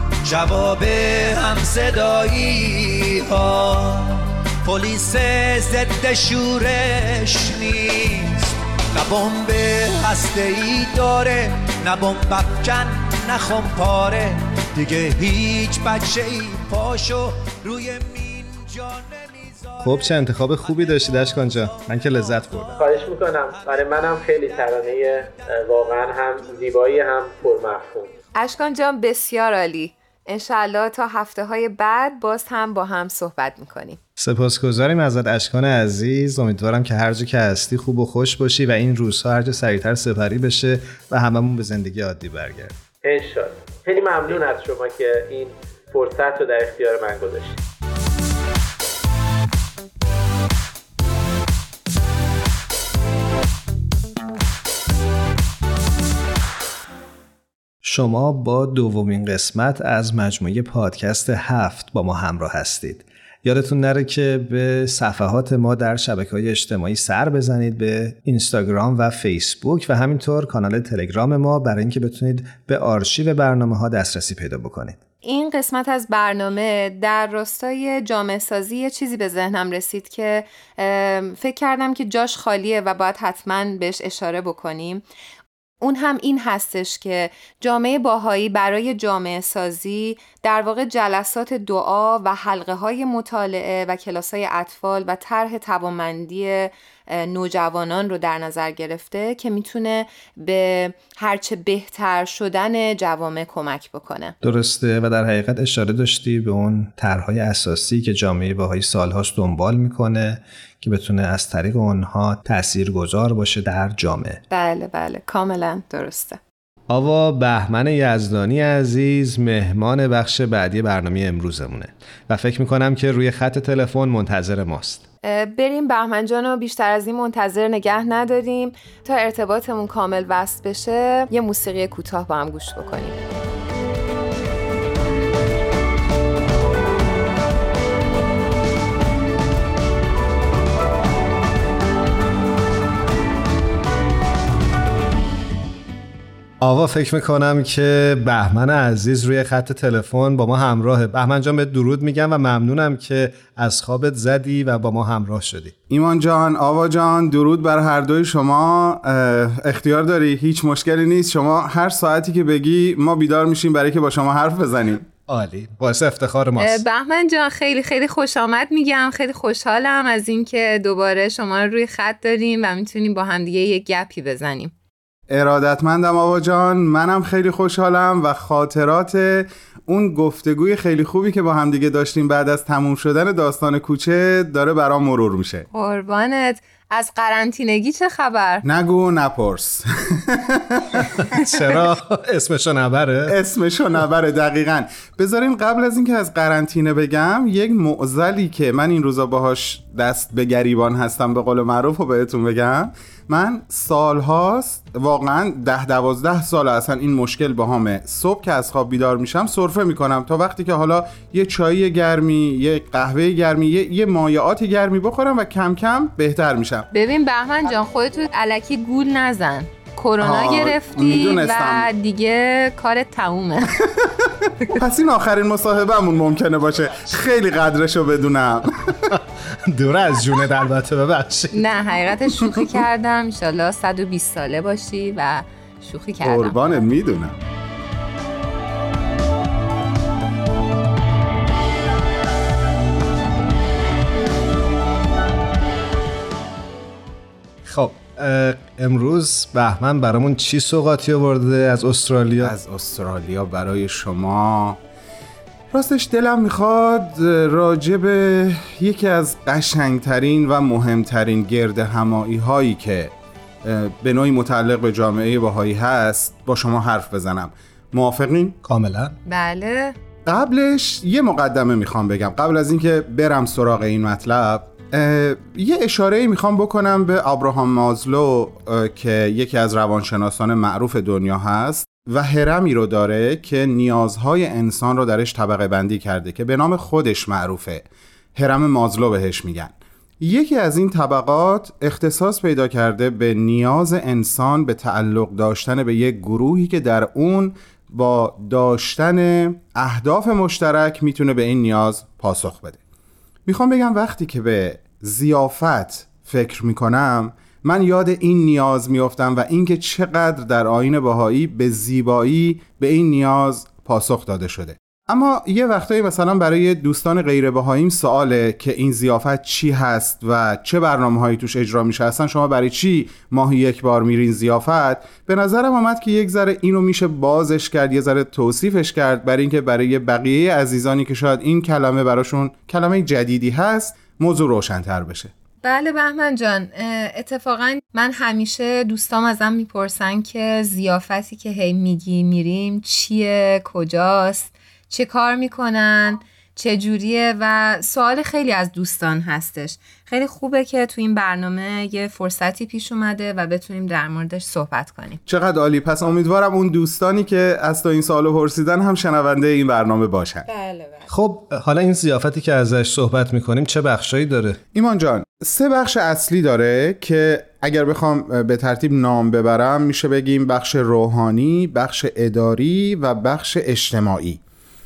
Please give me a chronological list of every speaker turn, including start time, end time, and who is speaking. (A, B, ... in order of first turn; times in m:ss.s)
0:00.2-0:19.9 A
0:19.8-0:22.8 B
0:20.6-0:22.8 A
0:22.8-0:28.1 C
0:23.6-0:23.9 A
0:28.4-0:34.0 D
0:34.2-0:42.8 B
0:43.0-0:47.6 C
0:57.8-1:15.0 B
1:15.2-1:25.0 D
1:25.8-1:44.4 D
1:44.4-1:54.4 B
1:54.5-1:56.4 D
1:56.9-2:05.0 B
2:05.2-2:13.2 D
2:26.6-2:35.8 B
2:35.9-2:45.1 E
2:45.3-2:46.8 B
2:46.6-2:54.7 D
2:55.3-3:05.7 E
3:05.7-3:08.6 D
3:08.6-3:11.1 E
3:11.3-3:13.3 B
3:13.3-3:36.9 E
3:36.9-3:43.8 D
3:40.2-3:41.9 E
3:43.9-3:48.9 E
3:49.1-3:51.6 B
3:51.5-3:56.6 D
3:56.2-3:57.4 E
4:07.6-4:12.5 B
4:12.4-4:14.8 E
4:15.7-4:23.1 E
4:23.6-4:28.6 E
4:28.6-4:29.2 B
4:29.3-4:30.0 D
4:30.3-5:02.8 E
5:03.5-5:35.3 E
5:35.6-5:55.2 D
5:55.3-6:00.5 E
6:00.5-6:01.1 D
6:01.1-6:04.6 B
6:04.7-6:14.4 E